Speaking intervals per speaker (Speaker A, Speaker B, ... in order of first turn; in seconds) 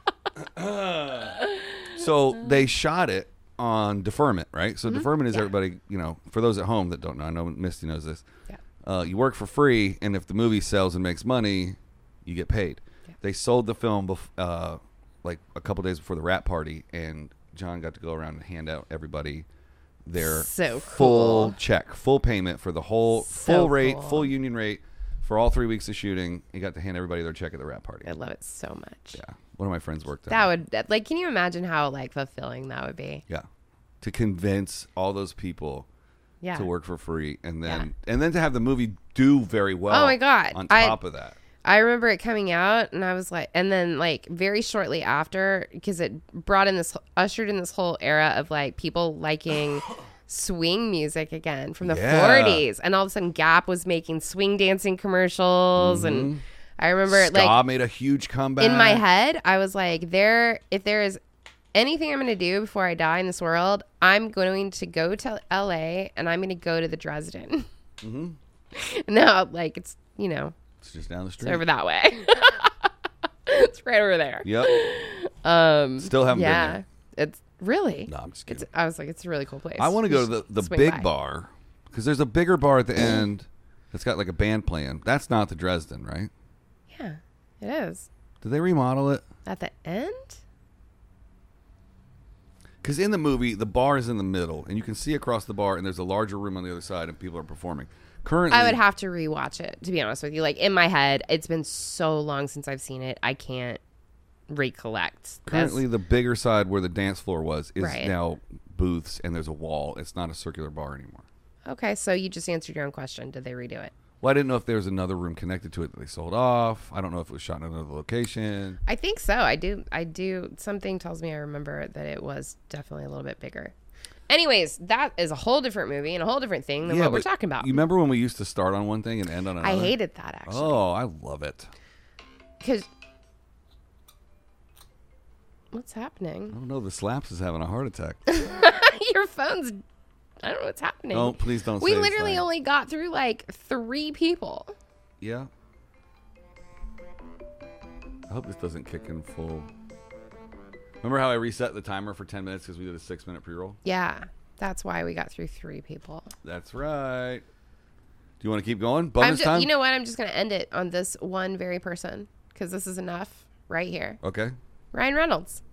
Speaker A: 0.4-8.2, 8.8-19.5, 20.1-28.1, 29.1-30.5, 34.0-35.9, 36.5-41.4, 51.8-52.7, 55.8-56.4, 57.1-59.0, 68.0-68.4, 70.8-71.6, 74.4-74.8, 76.0-76.8, 78.1-78.7, 79.8-86.3, 88.4-89.2, 92.8-98.8, 105.5-111.2, 114.2-118.8, 126.8-131.7, 136.5-138.2, 141.1-142.5, 145.2-145.5, 148.3-149.7, 151.0-153.8, 156.4-157.4, 158.4-159.7, 164.2-164.5
Speaker B: 4.9-5.5, 20.2-21.6, 23.2-24.3, 28.0-29.2, 30.3-33.2, 36.4-36.7, 39.9-41.0, 41.6-57.6, 58.6-61.2, 61.8-67.7, 68.7-70.5, 71.4-72.9, 73.5-81.1, 86.9-88.1, 89.5-90.4, 98.5-103.8, 104.5-105.8, 107.8-108.1, 111.7-113.9, 118.9-123.7, 124.3-127.8, 129.6-130.8, 132.6-132.9, 135.7-136.6, 138.3-139.8, 140.4-144.7, 153.8-156.3, 159.2-164.2, 164.9-165.6